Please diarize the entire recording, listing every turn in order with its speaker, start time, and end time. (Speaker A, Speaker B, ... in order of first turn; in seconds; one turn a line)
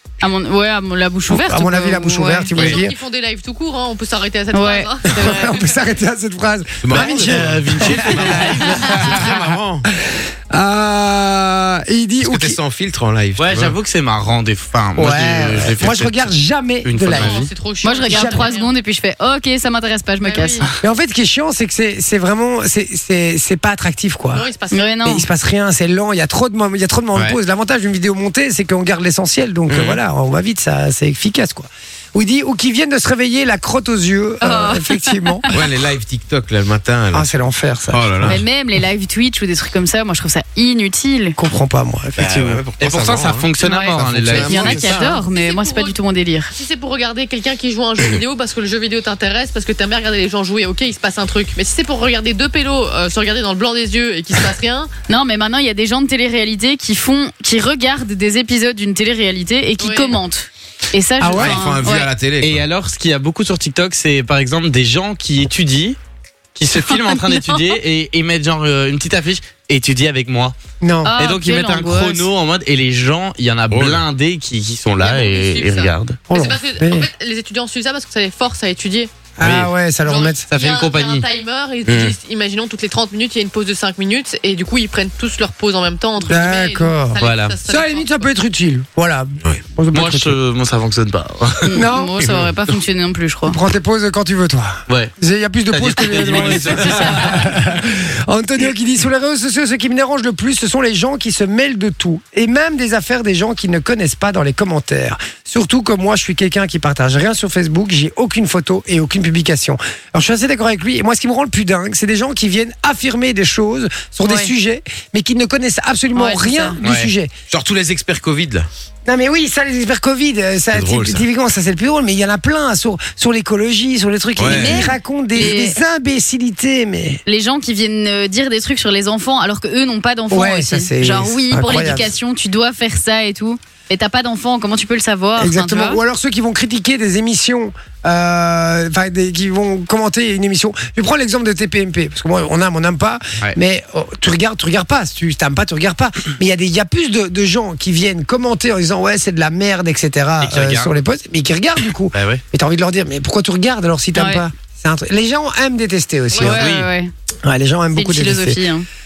Speaker A: 0.2-2.7
Speaker B: 1.3-3.0
Speaker C: 2.5-5.4
Speaker A: 4.5-5.5
Speaker B: 5.1-9.3
Speaker D: 6.8-9.9
Speaker E: 6.9-9.3
Speaker B: 10.1-12.6
Speaker D: 12.2-13.8
Speaker E: 13.4-16.3
Speaker B: 15.0-17.4
Speaker E: 16.9-17.5
Speaker C: 17.1-18.7
Speaker A: 17.8-20.7
Speaker B: 18.1-18.5
Speaker C: 20.2-20.6
Speaker B: 20.8-24.5
Speaker C: 24.3-24.9
Speaker A: 24.7-25.2
Speaker B: 25.0-35.5
Speaker D: 29.7-30.0
Speaker A: 34.4-35.5
Speaker D: 35.5-37.3
Speaker B: 37.1-38.4
Speaker D: 37.9-38.4
Speaker A: 38.2-41.4
Speaker B: 41.4-42.6
Speaker D: 42.2-45.1
Speaker E: 42.8-45.2
Speaker A: 43.6-46.5
Speaker C: 45.3-46.0
Speaker C: 46.5-54.9
Speaker A: 55.1-62.1
Speaker C: 59.8-60.2
Speaker B: 61.2-61.6
Speaker D: 61.3-62.7
Speaker E: 62.4-66.0
Speaker E: 66.5-70.5
Speaker A: 66.8-67.7
Speaker B: 70.8-71.1
Speaker A: 71.0-72.3
Speaker E: 71.2-76.2
Speaker D: 73.7-74.1
Speaker C: 75.0-79.1
Speaker B: 76.3-77.1
Speaker B: 79.4-80.5
Speaker E: 79.4-79.7
Speaker C: 80.0-88.3
Speaker E: 80.5-81.2
Speaker D: 81.9-82.2
Speaker B: 86.2-90.4
Speaker E: 87.2-87.6
Speaker E: 89.9-91.8
Speaker A: 91.7-93.6
Speaker B: 91.7-92.3
Speaker B: 93.5-117.3
Speaker E: 95.7-97.6
Speaker A: 96.6-97.3
Speaker A: 114.2-114.5
Speaker A: 116.1-116.8
Speaker E: 116.8-117.1
Speaker D: 117.5-118.7
Speaker B: 119.1-127.2
Speaker D: 120.7-121.3
Speaker D: 124.4-124.9
Speaker A: 124.5-125.8
Speaker A: 127.3-136.0
Speaker B: 130.3-132.1
Speaker B: 135.4-156.6
Speaker E: 150.4-150.9
Speaker E: 152.1-152.4
Speaker A: 154.2-154.4
Speaker C: 156.3-156.6
Speaker A: 156.4-157.1
Speaker E: 156.5-156.9
Speaker B: 157.4-158.6
Speaker A: 157.9-158.9